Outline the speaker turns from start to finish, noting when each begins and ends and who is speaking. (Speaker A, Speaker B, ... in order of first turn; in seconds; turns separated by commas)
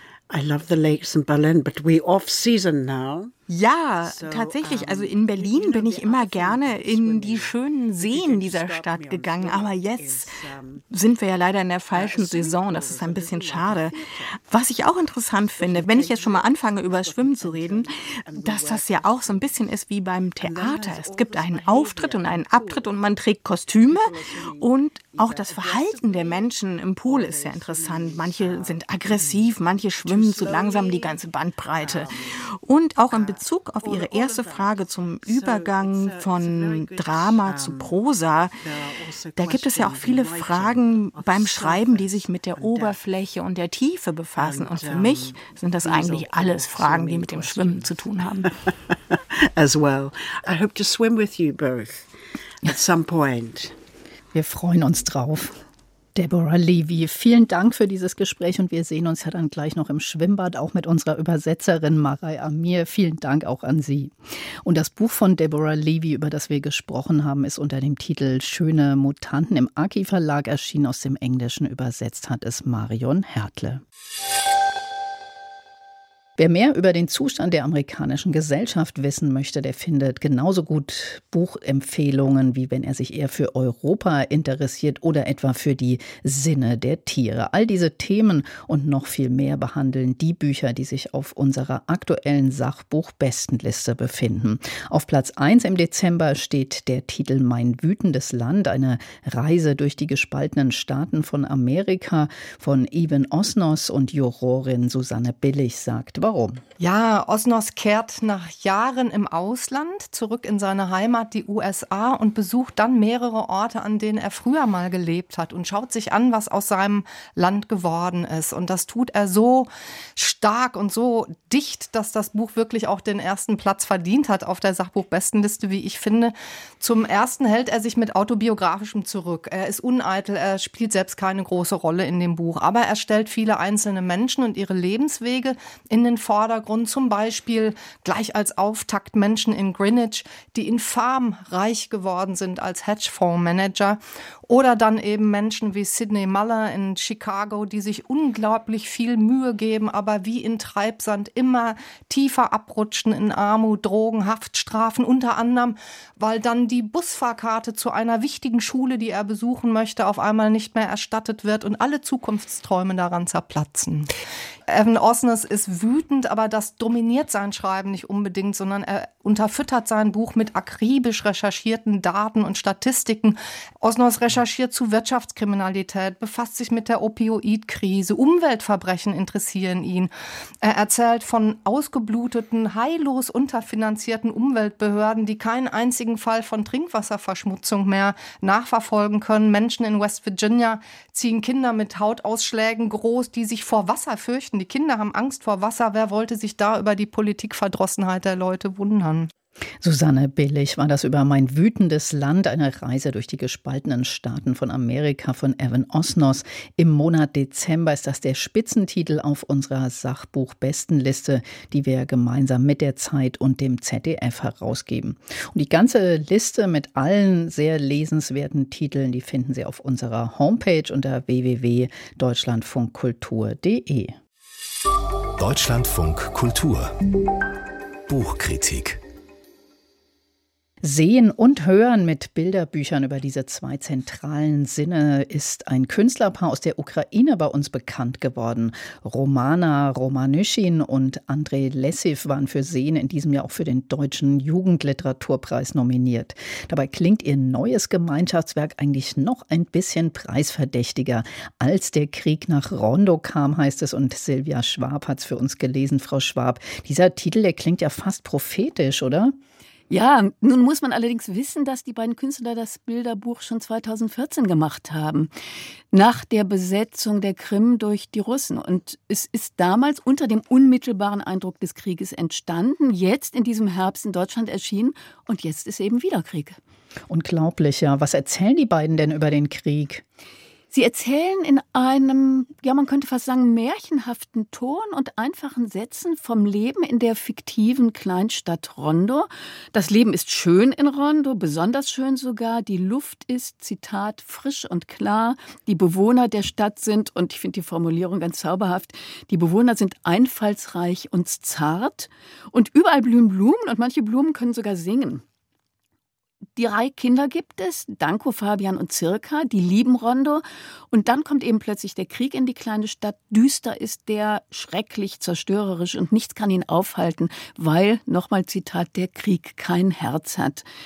Speaker A: 0.3-3.3, Speaker B: 3.5-38.6, Speaker A: 4.0-10.8, Speaker A: 11.9-14.4, Speaker A: 15.5-19.6, Speaker A: 20.4-23.1, Speaker A: 23.8-31.2, Speaker A: 31.7-32.5, Speaker A: 33.1-38.0, Speaker A: 38.6-43.0, Speaker B: 39.4-48.5, Speaker A: 44.4-52.1, Speaker A: 52.6-53.8, Speaker C: 54.3-55.5, Speaker C: 56.1-73.8, Speaker C: 76.4-106.6, Speaker D: 106.8-164.1, Speaker D: 164.7-180.1, Speaker D: 180.6-199.3, Speaker C: 199.8-224.2, Speaker E: 225.4-226.9, Speaker E: 228.1-229.0, Speaker C: 230.8-259.4, Speaker F: 259.9-265.3, Speaker F: 265.9-276.6, Speaker C: 277.1-280.0, Speaker F: 280.7-305.2, Speaker F: 306.6-320.6